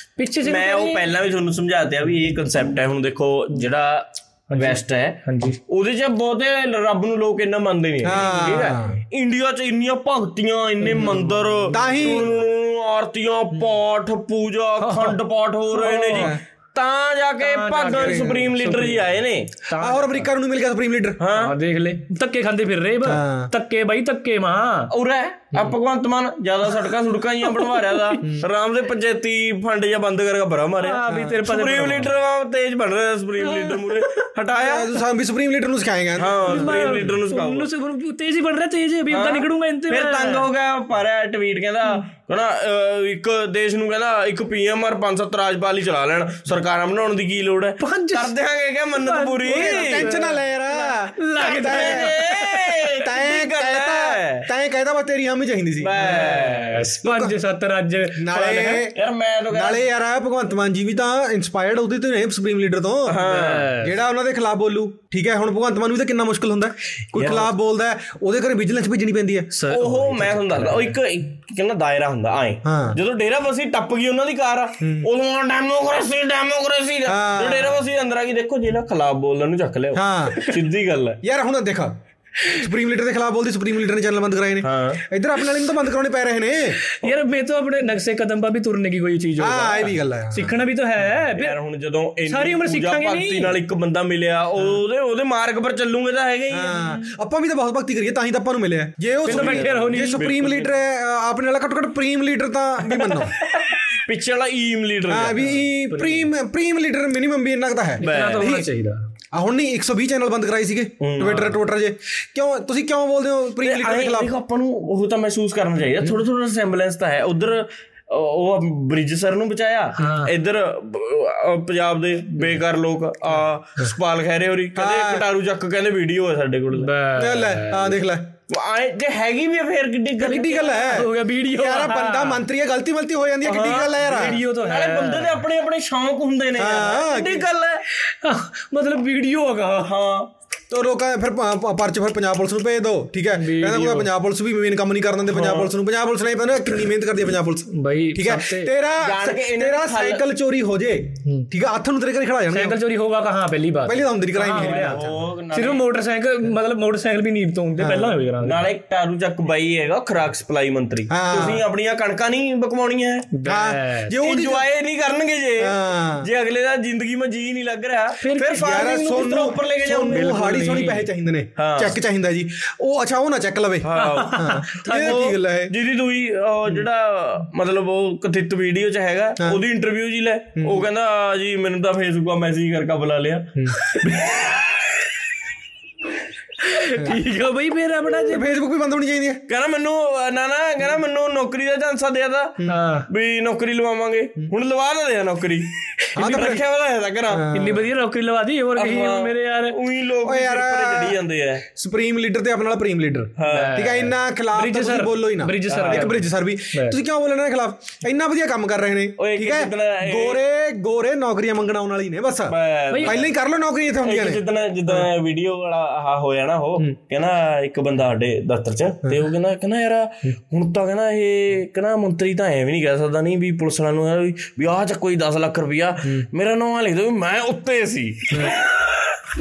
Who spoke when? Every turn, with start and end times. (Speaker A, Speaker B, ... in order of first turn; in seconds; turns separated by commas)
Speaker A: 0.2-1.0, Speaker B: 0.4-19.5, Speaker A: 4.5-5.6, Speaker C: 8.0-9.0, Speaker A: 8.1-8.8, Speaker C: 11.7-12.3, Speaker A: 14.8-15.2, Speaker A: 15.7-16.3, Speaker C: 16.1-16.4, Speaker A: 17.4-19.1, Speaker C: 17.9-18.5, Speaker A: 19.6-20.3, Speaker C: 19.8-21.2, Speaker B: 21.2-21.5, Speaker A: 21.3-24.9, Speaker C: 23.0-23.5, Speaker B: 24.9-34.9, Speaker A: 27.6-28.2, Speaker A: 30.8-32.1, Speaker C: 31.1-31.4, Speaker A: 33.4-34.2, Speaker C: 34.5-37.0, Speaker B: 36.2-37.7, Speaker A: 36.5-40.5, Speaker B: 39.1-50.1, Speaker A: 47.8-48.3, Speaker A: 48.9-52.4, Speaker C: 49.5-52.2, Speaker B: 51.4-54.5, Speaker C: 53.0-56.5, Speaker B: 55.8-56.9, Speaker A: 56.0-58.8, Speaker C: 57.0-57.4, Speaker C: 58.1-59.0, Speaker B: 58.6-59.8, Speaker C: 59.5-63.2, Speaker B: 63.1-63.7, Speaker A: 63.2-63.9, Speaker C: 63.8-69.7, Speaker A: 69.5-70.1, Speaker B: 69.7-81.2, Speaker C: 72.6-73.0, Speaker C: 74.8-75.1, Speaker C: 77.0-77.8, Speaker C: 79.9-80.4, Speaker C: 81.2-86.8, Speaker B: 84.6-85.0, Speaker A: 86.9-91.5, Speaker C: 89.4-90.5, Speaker B: 91.3-97.0, Speaker A: 92.3-93.5, Speaker C: 96.5-103.3, Speaker A: 99.2-100.3, Speaker B: 99.3-100.7, Speaker B: 102.9-105.4, Speaker C: 105.1-108.7, Speaker A: 105.4-106.3, Speaker A: 108.0-109.0, Speaker B: 108.0-108.6, Speaker C: 109.3-114.3, Speaker B: 111.0-111.5, Speaker B: 113.6-126.9, Speaker A: 120.0-120.3, Speaker C: 124.8-125.2, Speaker A: 126.7-128.0, Speaker C: 127.1-128.3, Speaker B: 128.5-131.0, Speaker C: 130.2-134.4, Speaker A: 130.9-132.4, Speaker B: 133.4-133.9, Speaker A: 133.5-135.3, Speaker B: 134.6-137.8, Speaker C: 136.6-137.5, Speaker A: 137.9-139.9, Speaker B: 139.8-140.3, Speaker C: 140.7-152.8, Speaker A: 143.3-144.1, Speaker B: 145.3-145.7, Speaker A: 147.7-148.7, Speaker B: 149.0-150.2, Speaker A: 152.5-158.6, Speaker C: 153.8-155.1, Speaker B: 154.5-155.8, Speaker C: 157.8-158.2, Speaker B: 158.4-163.3, Speaker C: 161.1-161.6, Speaker A: 163.3-164.1, Speaker C: 163.4-164.7, Speaker B: 164.2-170.8, Speaker C: 165.6-166.3, Speaker A: 168.2-168.9, Speaker C: 168.6-175.7, Speaker A: 170.1-171.1, Speaker B: 171.6-172.0, Speaker B: 173.8-184.8, Speaker A: 173.9-175.2, Speaker C: 180.6-180.8, Speaker A: 186.6-188.5, Speaker C: 188.2-189.4, Speaker B: 189.5-192.6, Speaker A: 192.7-193.1, Speaker B: 193.1-197.5, Speaker C: 196.1-196.6, Speaker C: 197.3-197.8, Speaker A: 197.5-199.7, Speaker B: 198.8-201.6, Speaker C: 200.2-201.2, Speaker C: 201.7-215.0, Speaker B: 203.4-203.8, Speaker A: 203.5-207.0, Speaker B: 205.7-206.1, Speaker B: 209.2-210.4, Speaker B: 212.5-213.3, Speaker A: 212.9-213.2, Speaker B: 214.0-229.2